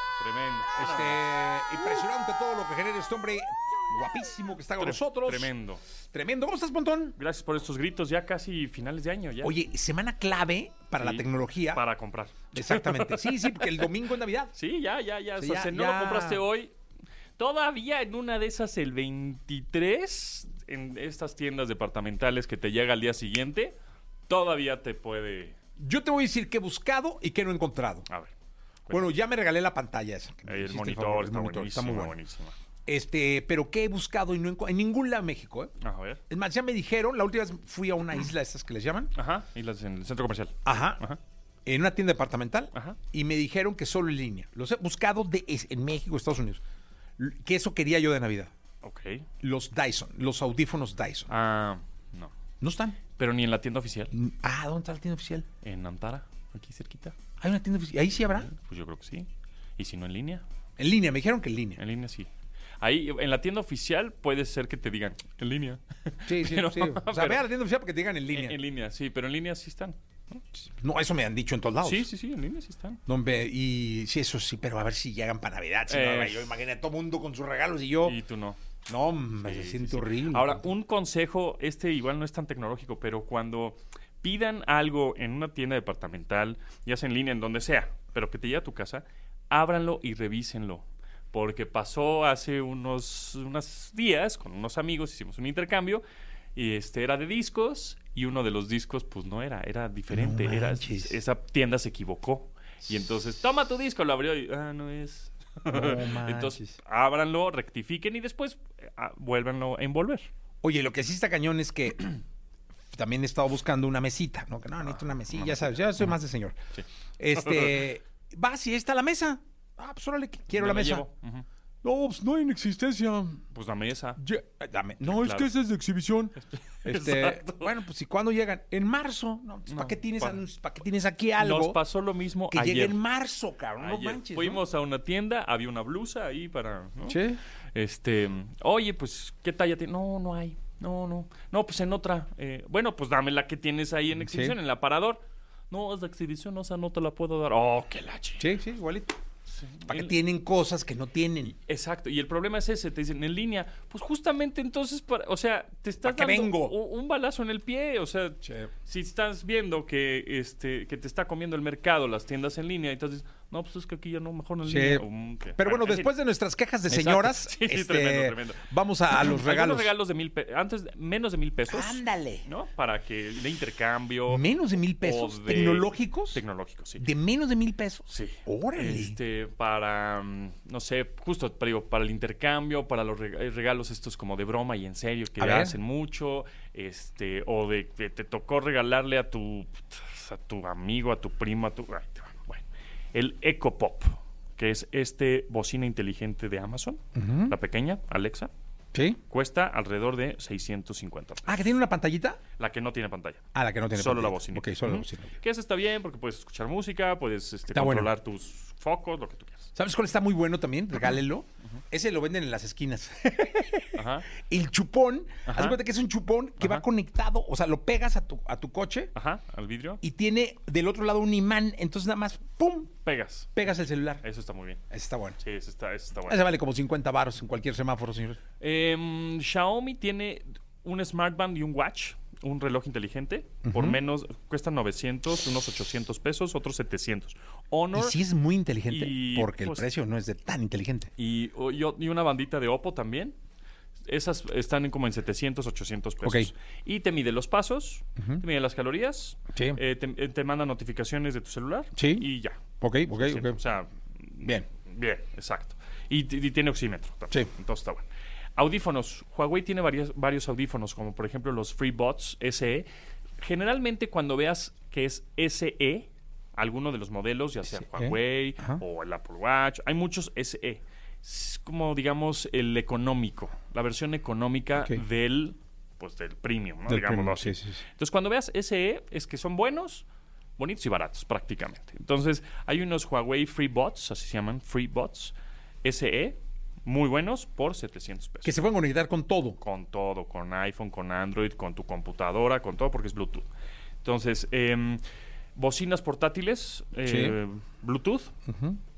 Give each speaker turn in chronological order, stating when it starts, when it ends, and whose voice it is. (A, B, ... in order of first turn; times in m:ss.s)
0:00.2-0:01.2 A
0:00.8-0:05.5 B
0:04.8-0:05.8 A
0:06.1-0:07.2 B
0:07.2-0:09.5 A
0:09.4-0:11.8 B
0:11.0-0:13.9 A
0:12.5-0:14.5 B
0:14.5-0:16.7 A
0:15.4-0:16.4 B
0:17.4-0:23.7 A
0:24.3-0:25.6 A
0:25.8-0:28.1 B
0:28.1-0:28.3 A
0:28.9-0:29.2 A
0:28.9-0:32.2 B
0:30.5-0:32.6 A
0:32.9-0:35.7 B
0:35.8-0:36.2 A
0:36.3-0:39.1 B
0:39.1-0:41.2 A
0:40.6-0:41.0 B
0:41.7-0:46.6 B
0:42.7-0:43.0 A
0:47.2-0:48.5 B
0:48.8-0:49.3 A
0:49.4-0:51.3 B
0:51.3-0:52.3 A
0:52.6-0:53.0 B
0:53.2-0:54.1 A
0:54.1-0:55.5 B
0:55.6-0:57.2 A
0:57.4-0:58.5 B
0:58.3-1:00.4 A
1:00.8-1:01.8 B
1:01.8-1:02.3 A
1:02.8-1:07.4 A
1:06.3-1:08.6 B
1:08.3-1:10.4 A
1:10.6-1:12.1 B
1:11.8-1:13.0 A
1:13.1-1:18.2 B
1:15.9-1:16.6 A
1:18.0-1:18.6 A
1:18.9-1:20.7 B
1:19.4-1:36.0 A
1:36.6-1:50.3 A
1:40.1-1:41.2 B
1:45.7-1:46.8 B
1:50.6-1:52.1 B
1:52.9-1:56.6 B
1:54.8-1:56.2 A
1:57.2-2:01.1 B
1:57.4-1:57.7 A
2:00.6-2:01.5 A
2:01.8-2:03.4 B
2:03.5-2:04.2 A
2:04.2-2:11.8 B
2:05.1-2:05.5 A
2:06.4-2:07.7 A
2:09.7-2:10.4 A
2:11.4-2:13.0 A
2:12.5-2:14.6 B
2:13.8-2:17.2 A
2:17.1-2:17.4 B
2:17.7-2:28.5 A
2:24.1-2:24.6 B
2:28.4-2:29.2 B
2:29.5-2:30.2 A
2:29.9-2:31.6 B
2:31.7-2:46.1 A
2:36.0-2:36.8 B
2:44.6-2:49.9 B
2:46.9-2:54.4 A
2:51.7-2:52.5 B
2:54.3-2:56.4 B
2:55.0-2:57.1 A
2:57.0-2:59.2 B
2:58.1-3:18.5 A
3:05.4-3:05.8 B
3:17.2-3:17.6 B
3:18.9-3:19.2 B
3:19.3-3:21.7 A
3:21.4-3:22.4 B
3:22.6-3:29.7 A
3:23.5-3:25.3 B
3:27.7-3:28.1 B
3:29.8-3:39.1 B
3:33.9-3:34.3 A
3:35.5-3:35.8 A
3:39.1-3:40.0 A
3:40.0-3:42.9 B
3:43.0-3:44.8 A
3:43.6-3:44.2 B
3:44.9-3:45.4 B
3:45.4-3:46.5 A
3:46.3-3:48.4 B
3:48.6-3:58.2 A
3:53.6-3:54.0 B
3:57.9-4:01.1 B
3:58.9-3:59.9 A
4:01.2-4:03.4 A
4:04.1-4:22.9 A
4:06.2-4:06.5 B
4:08.2-4:08.4 B
4:09.6-4:09.8 B
4:12.0-4:12.3 B
4:12.8-4:13.6 B
4:14.4-4:14.7 B
4:23.4-4:40.1 A
4:27.7-4:28.8 B
4:36.9-4:37.8 B
4:40.6-4:48.6 A
4:48.4-4:49.6 B
4:49.6-4:53.5 A
4:54.0-4:55.0 A
4:55.6-4:58.3 A
4:57.0-4:57.4 B
4:58.5-4:58.8 B